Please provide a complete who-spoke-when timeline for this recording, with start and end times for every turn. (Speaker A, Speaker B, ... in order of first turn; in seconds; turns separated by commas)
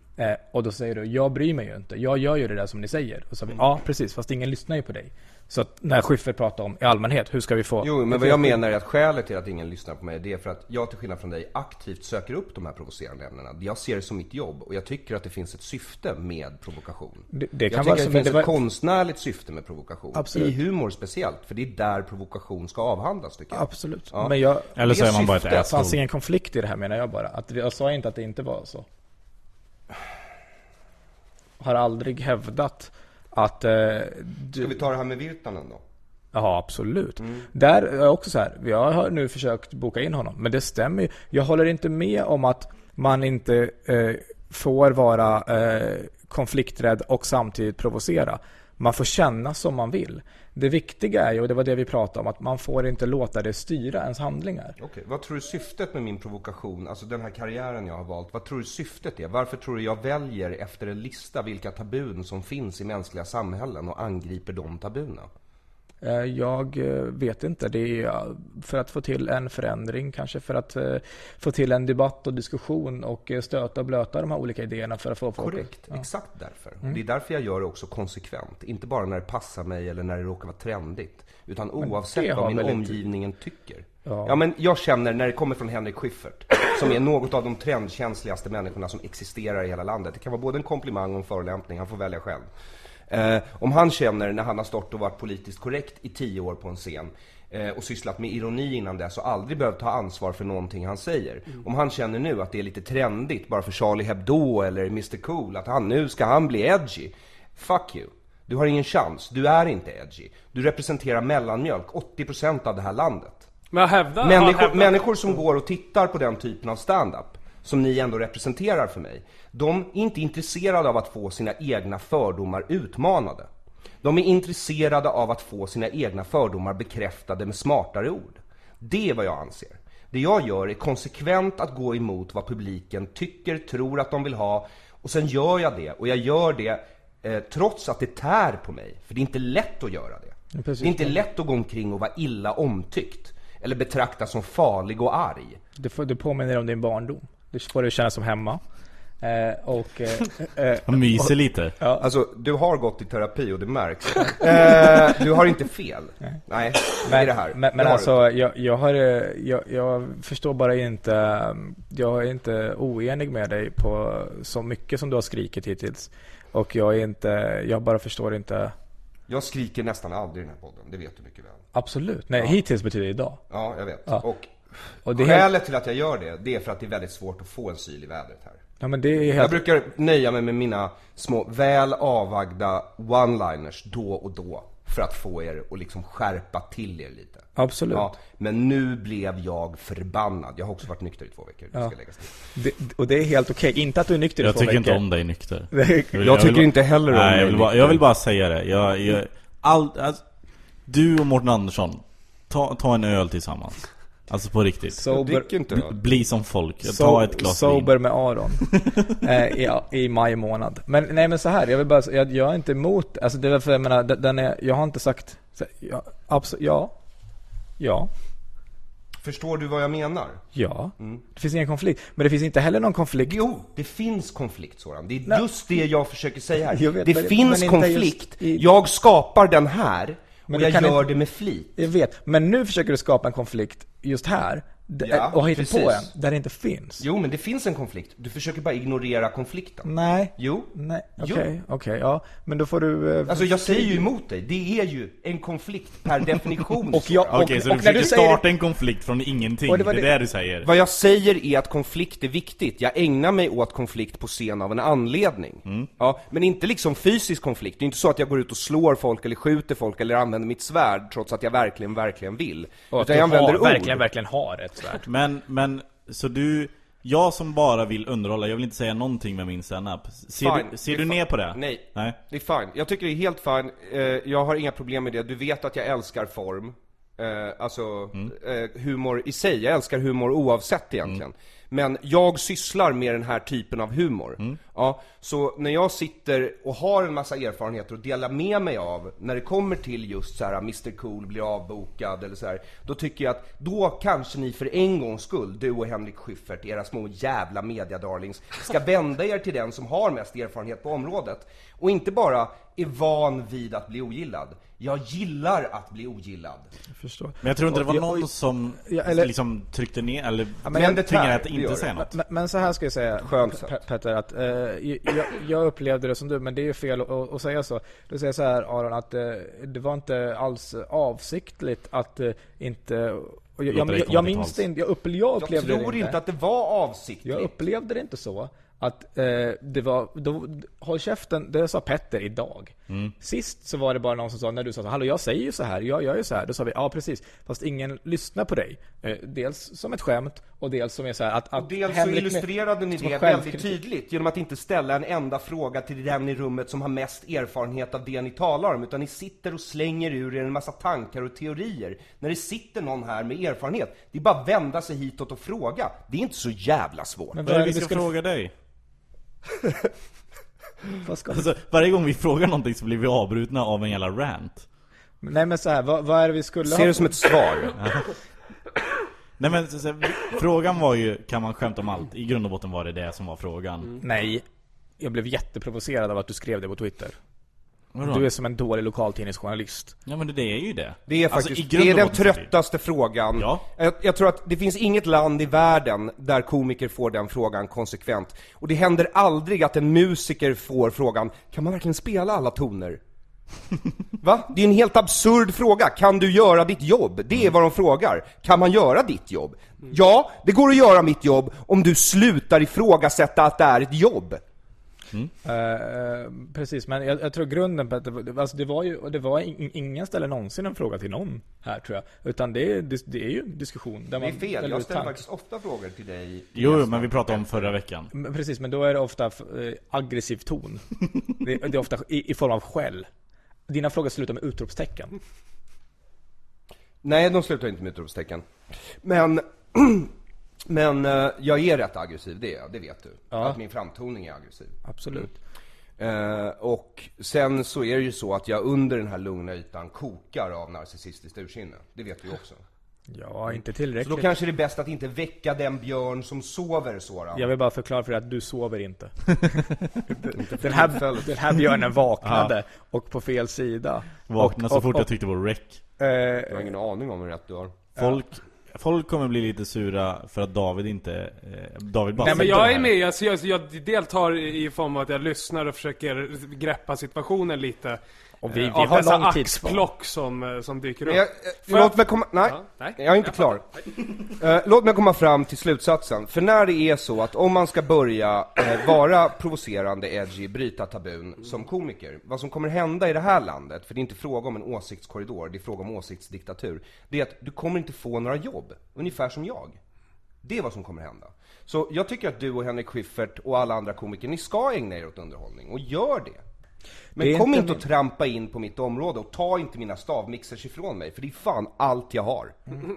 Speaker A: 0.2-8.6, Speaker B: 7.8-25.7, Speaker A: 17.3-18.5, Speaker A: 20.1-20.5, Speaker A: 23.5-24.8, Speaker C: 24.8-26.0, Speaker A: 25.4-28.9, Speaker A: 31.6-34.7, Speaker B: 34.6-35.8, Speaker A: 36.3-54.8, Speaker B: 37.2-37.5, Speaker B: 54.8-65.3, Speaker A: 66.0-76.0, Speaker B: 75.4-92.5, Speaker A: 81.8-83.0, Speaker A: 84.0-84.3, Speaker B: 93.1-113.5, Speaker D: 113.7-115.1, Speaker B: 114.2-123.5, Speaker B: 124.0-145.6, Speaker A: 140.5-141.2, Speaker A: 145.8-148.6, Speaker A: 149.2-152.1, Speaker C: 150.9-151.7, Speaker B: 152.0-158.1, Speaker A: 157.0-168.7, Speaker B: 169.3-171.6, Speaker A: 171.7-173.4, Speaker B: 173.5-174.5, Speaker A: 175.0-175.5, Speaker B: 175.1-178.6, Speaker A: 178.8-179.6, Speaker B: 179.3-192.3, Speaker A: 187.6-188.1, Speaker A: 192.5-195.0, Speaker C: 194.4-200.2, Speaker A: 195.7-196.2, Speaker B: 196.2-198.0, Speaker C: 200.9-205.0, Speaker A: 204.9-205.5, Speaker B: 205.1-205.9, Speaker C: 205.7-207.9, Speaker A: 206.8-216.9, Speaker C: 208.6-209.0, Speaker A: 217.8-218.1, Speaker B: 219.2-220.4, Speaker A: 220.5-223.4, Speaker B: 223.2-231.7, Speaker A: 226.7-228.6, Speaker A: 230.5-231.1, Speaker A: 231.8-237.0, Speaker B: 235.0-236.1, Speaker B: 237.0-241.5, Speaker A: 239.8-244.1, Speaker B: 243.3-248.1, Speaker A: 246.9-248.4, Speaker C: 247.3-250.7, Speaker A: 249.7-250.1, Speaker B: 250.6-264.0, Speaker A: 262.9-265.1, Speaker C: 265.1-272.2, Speaker B: 270.4-306.7, Speaker A: 307.0-308.3, Speaker C: 307.4-312.1, Speaker A: 308.9-309.3, Speaker A: 310.6-311.1, Speaker B: 310.7-311.9, Speaker A: 311.9-326.2, Speaker B: 313.2-313.8, Speaker C: 323.7-324.6, Speaker B: 325.4-327.5, Speaker A: 327.2-343.7, Speaker C: 332.9-333.1, Speaker B: 341.6-357.4, Speaker A: 357.3-358.1, Speaker C: 357.4-358.5, Speaker A: 361.0-361.5, Speaker C: 361.3-364.6, Speaker A: 365.2-367.1, Speaker B: 366.6-367.8, Speaker C: 367.8-368.1, Speaker C: 369.4-374.0, Speaker A: 374.0-374.4, Speaker A: 375.0-377.1, Speaker C: 377.9-378.3, Speaker A: 378.1-379.9, Speaker C: 380.1-382.5, Speaker B: 381.1-393.0, Speaker C: 383.4-383.6, Speaker B: 394.2-404.4, Speaker A: 405.4-415.2, Speaker B: 414.2-417.7, Speaker C: 416.5-418.1, Speaker A: 418.1-420.8, Speaker A: 421.4-423.1, Speaker A: 423.7-425.1, Speaker B: 427.0-428.4, Speaker B: 429.0-430.1, Speaker B: 430.7-434.8, Speaker A: 433.3-433.6, Speaker A: 434.8-435.3, Speaker B: 436.0-442.6, Speaker A: 443.1-444.3, Speaker B: 444.0-447.5, Speaker A: 447.3-455.1, Speaker B: 450.3-451.3, Speaker C: 452.2-452.5, Speaker C: 454.3-455.8, Speaker A: 456.0-456.7, Speaker B: 456.5-457.7, Speaker C: 458.0-462.9, Speaker D: 462.2-468.0, Speaker A: 462.2-462.9, Speaker A: 468.4-469.9, Speaker D: 468.5-471.9, Speaker B: 471.1-473.6, Speaker D: 472.5-473.0, Speaker B: 474.2-489.8, Speaker B: 490.4-496.4, Speaker B: 497.1-502.6, Speaker A: 497.2-497.8